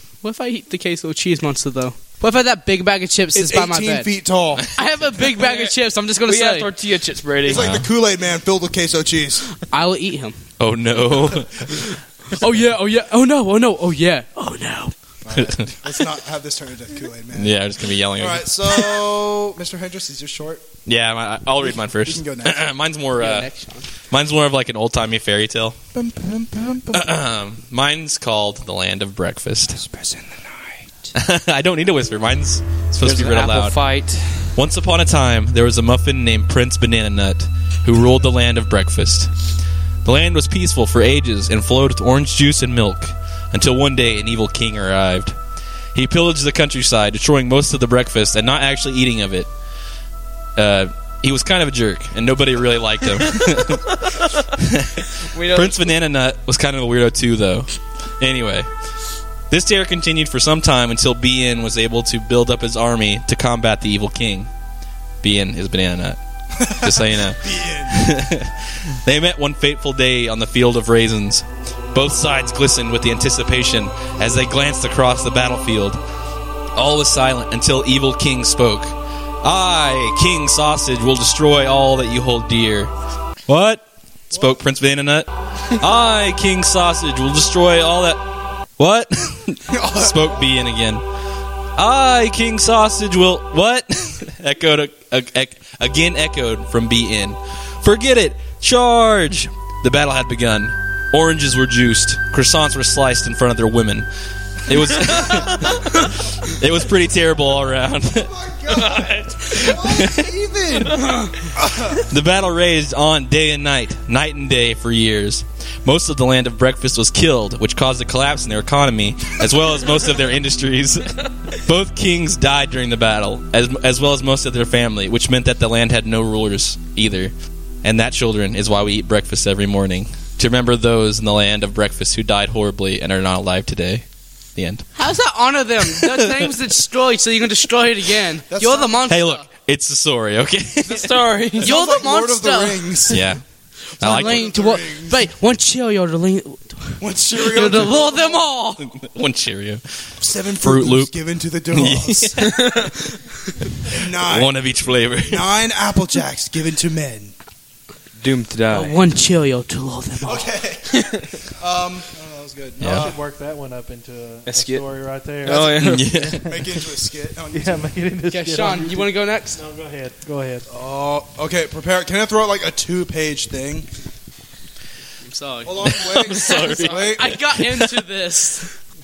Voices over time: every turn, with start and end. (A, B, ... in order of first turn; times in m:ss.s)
0:00.2-0:04.1 A
0:03.3-0:04.7 B
0:04.8-0:06.7 A
0:05.4-0:07.7 C
0:07.4-0:09.5 B
0:07.5-0:07.9 D
0:09.7-0:10.4 A
0:10.6-0:11.9 D
0:11.7-0:14.9 A
0:15.2-0:17.6 B
0:15.4-0:15.7 D
0:17.3-0:19.0 D
0:18.2-0:20.8 B
0:20.9-0:23.5 D
0:21.6-0:22.6 B
0:23.2-0:23.9 A
0:24.1-0:25.8 D
0:25.9-0:27.1 B
0:26.9-0:29.8 D
0:29.7-0:31.1 B
0:31.2-0:33.8 D
0:33.0-0:34.6 C
0:34.6-0:39.3 D
0:40.0-0:45.4 D
0:45.9-0:49.5 D
0:50.6-0:58.7 D
0:53.2-0:53.8 C
0:55.2-0:56.0 C
0:59.5-1:04.5 D
1:05.2-1:16.0 D
1:06.6-1:08.1 B
1:16.8-1:22.9 D
1:23.5-1:28.2 D
1:28.8-1:31.0 D
1:29.7-1:30.5 B
1:31.8-1:44.1 D
1:44.7-1:48.3 D
1:45.0-1:45.7 B
1:48.1-1:52.1 B
1:48.8-1:49.6 C
1:49.8-1:50.3 D
1:51.0-1:51.3 A
1:52.0-2:07.3 D
2:07.8-2:14.0 D
2:14.6-2:14.9 D
2:15.0-2:19.5 A
2:15.9-2:16.5 D
2:18.5-2:19.0 B
2:19.1-2:21.1 D
2:20.9-2:21.7 C
2:21.6-2:23.3 B
2:21.6-2:23.2 A
2:23.1-2:23.4 D
2:24.0-2:24.5 D
2:24.0-2:25.2 B
2:24.0-2:28.9 A
2:27.0-2:28.4 B
2:28.8-2:29.8 D
2:30.2-2:32.4 B
2:30.6-2:31.1 D
2:31.7-2:32.9 D
2:32.5-2:32.8 C
2:33.9-2:35.5 D
2:33.9-2:34.6 B
2:35.2-2:37.3 B
2:38.2-2:39.0 C
2:38.7-2:40.5 A
2:40.2-2:43.2 B
2:40.9-2:41.3 C
2:42.8-2:43.1 D
2:42.8-2:46.5 E
2:44.5-2:44.8 C
2:45.4-2:46.2 C
2:45.5-2:47.9 B
2:45.7-2:46.5 D
2:47.5-2:50.7 E
2:48.3-2:49.6 A
2:50.7-2:53.9 B
2:55.2-2:58.8 A
2:55.6-2:57.4 B
2:55.9-2:57.9 D